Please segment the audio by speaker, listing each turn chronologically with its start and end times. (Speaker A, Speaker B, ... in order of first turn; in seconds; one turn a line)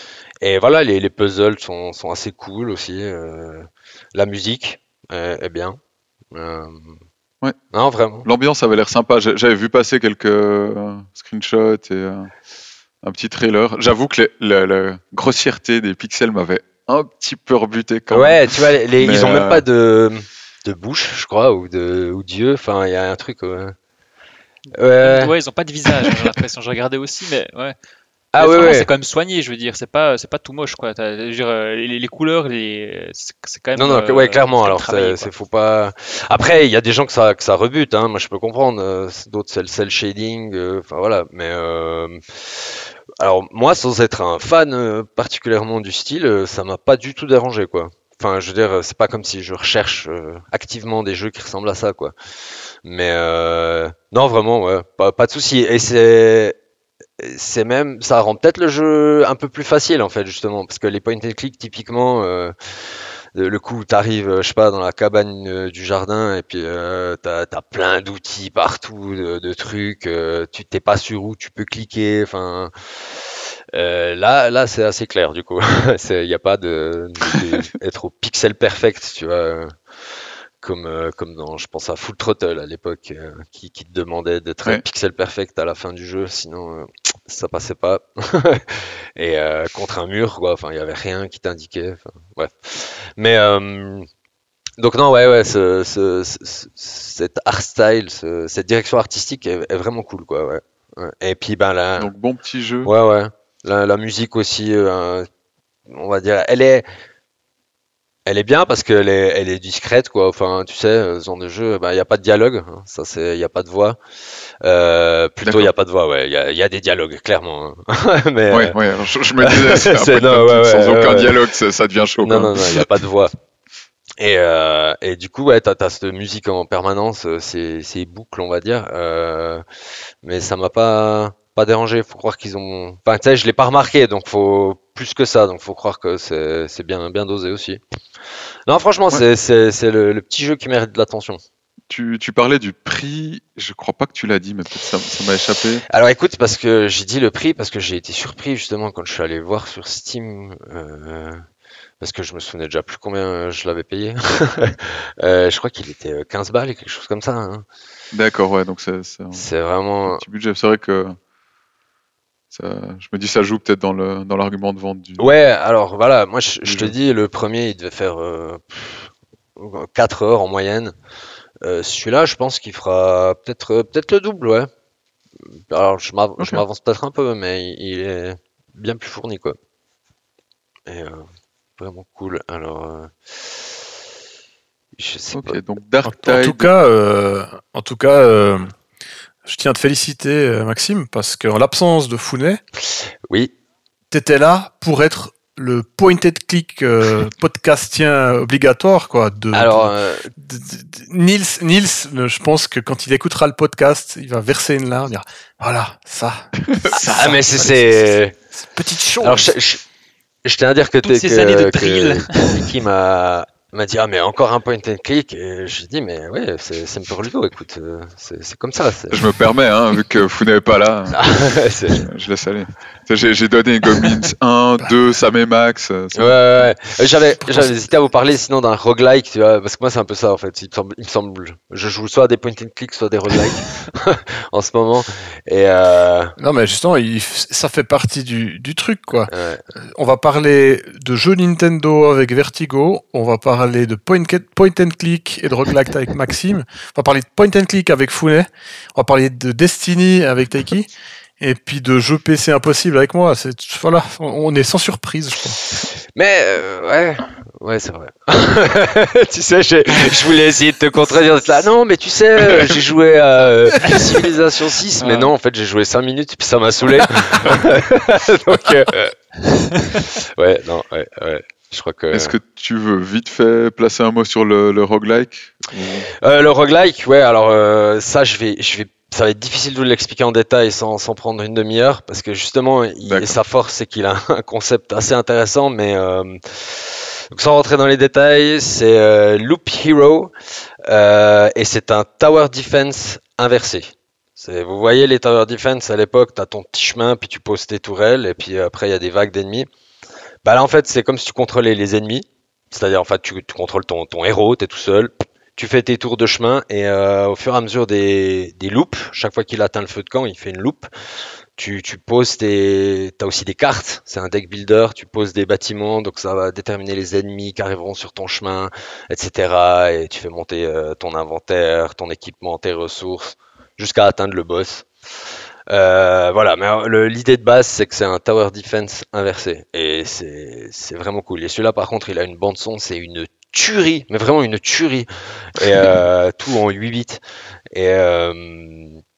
Speaker A: 0.4-5.8
Speaker A: 6.3-7.0
Speaker A: 7.7-8.3
Speaker B: 8.2-12.3
Speaker B: 13.0-19.6
Speaker A: 18.1-23.8
Speaker A: 24.8-25.3
Speaker C: 25.0-27.8
Speaker A: 28.3-28.9
Speaker C: 28.4-35.3
Speaker A: 33.8-52.1
Speaker A: 52.8-56.6
Speaker A: 57.2-79.7
Speaker A: 80.6-94.1
Speaker A: 94.8-102.1
Speaker B: 102.0-102.9
Speaker A: 102.8-105.3
Speaker A: 105.9-106.8
Speaker A: 108.2-114.0
Speaker A: 114.6-118.8
Speaker B: 115.4-115.7
Speaker B: 118.5-122.8
Speaker A: 119.4-121.4
Speaker A: 122.2-123.3
Speaker A: 124.2-129.6
Speaker A: 130.2-137.8
Speaker A: 138.7-141.4
Speaker B: 141.9-145.8
Speaker A: 145.9-151.4
Speaker A: 152.0-157.6
Speaker B: 158.1-159.5
Speaker A: 159.3-160.2
Speaker B: 160.1-161.2
Speaker B: 162.5-165.3
Speaker A: 165.2-170.9
Speaker B: 166.6-166.9
Speaker A: 171.6-174.7
Speaker A: 175.7-179.6
Speaker B: 176.4-176.6
Speaker A: 180.8-181.2
Speaker A: 181.8-183.6
Speaker A: 185.0-185.6
Speaker B: 185.3-186.7
Speaker D: 186.0-188.7
Speaker D: 189.4-192.6
Speaker A: 192.8-193.5
Speaker D: 194.1-209.5
Speaker A: 199.5-200.3
Speaker B: 206.6-207.4
Speaker A: 206.9-208.3
Speaker A: 209.2-209.8
Speaker A: 210.4-219.2
Speaker C: 211.0-212.7
Speaker B: 219.1-221.3
Speaker A: 221.1-222.0
Speaker B: 221.9-226.7
Speaker A: 226.2-236.3
Speaker D: 236.4-255.6
Speaker A: 239.3-239.6
Speaker A: 256.1-272.4
Speaker C: 265.0-265.3
Speaker B: 272.1-276.1
Speaker A: 276.2-290.3
Speaker B: 283.0-283.3
Speaker A: 290.9-299.7
Speaker A: 300.4-310.9
Speaker A: 311.6-324.9
Speaker A: 325.7-337.2
Speaker A: 337.7-339.0